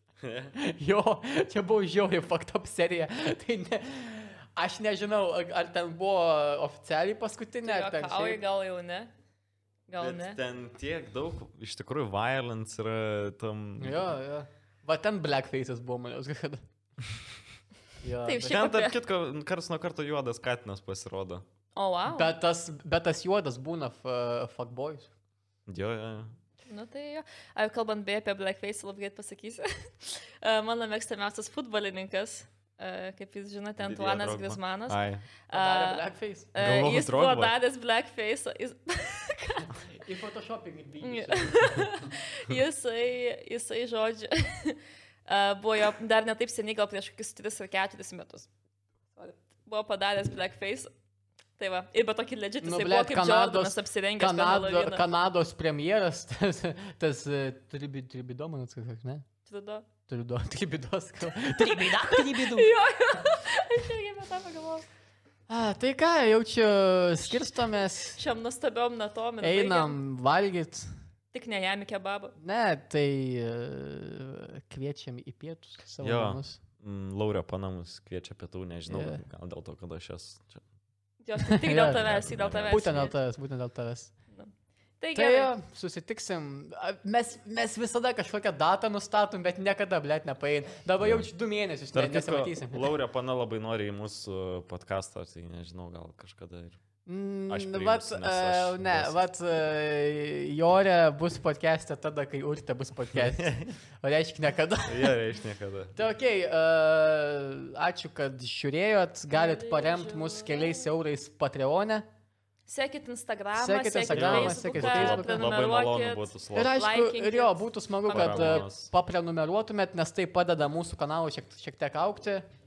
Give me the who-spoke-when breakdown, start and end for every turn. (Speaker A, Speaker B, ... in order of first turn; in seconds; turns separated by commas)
Speaker A: 0.2-0.5, Speaker B: 0.5-8.4, Speaker C: 7.6-9.1, Speaker C: 9.9-10.4, Speaker A: 10.0-14.1, Speaker B: 13.8-16.6, Speaker B: 18.0-18.5, Speaker C: 18.3-19.0, Speaker A: 18.4-21.4, Speaker C: 21.8-22.3, Speaker B: 22.1-25.1, Speaker A: 25.7-26.4, Speaker C: 26.7-39.7, Speaker A: 33.8-35.3, Speaker B: 35.5-36.5, Speaker A: 36.6-37.5, Speaker B: 40.0-42.1, Speaker C: 41.0-48.5, Speaker C: 49.2-50.9, Speaker C: 51.6-55.0, Speaker B: 52.6-59.2, Speaker C: 59.5-59.9, Speaker B: 60.1-62.7, Speaker C: 61.6-64.9, Speaker B: 65.5-68.2, Speaker C: 68.2-70.0, Speaker B: 69.4-70.9, Speaker C: 71.3-72.3, Speaker B: 72.4-76.6, Speaker A: 76.0-80.6, Speaker B: 78.9-79.2, Speaker C: 81.2-83.2, Speaker B: 81.5-82.0, Speaker A: 81.9-82.8, Speaker B: 82.7-84.1, Speaker C: 84.3-85.5, Speaker B: 85.2-92.9, Speaker A: 91.0-91.3, Speaker A: 91.9-96.8, Speaker B: 97.1-105.2, Speaker A: 97.5-99.2, Speaker A: 103.2-103.7, Speaker A: 104.9-106.0, Speaker B: 106.0-112.1, Speaker C: 109.3-110.8, Speaker C: 112.7-118.7, Speaker B: 113.5-115.5, Speaker A: 114.1-116.8, Speaker B: 116.5-122.5, Speaker A: 118.1-118.9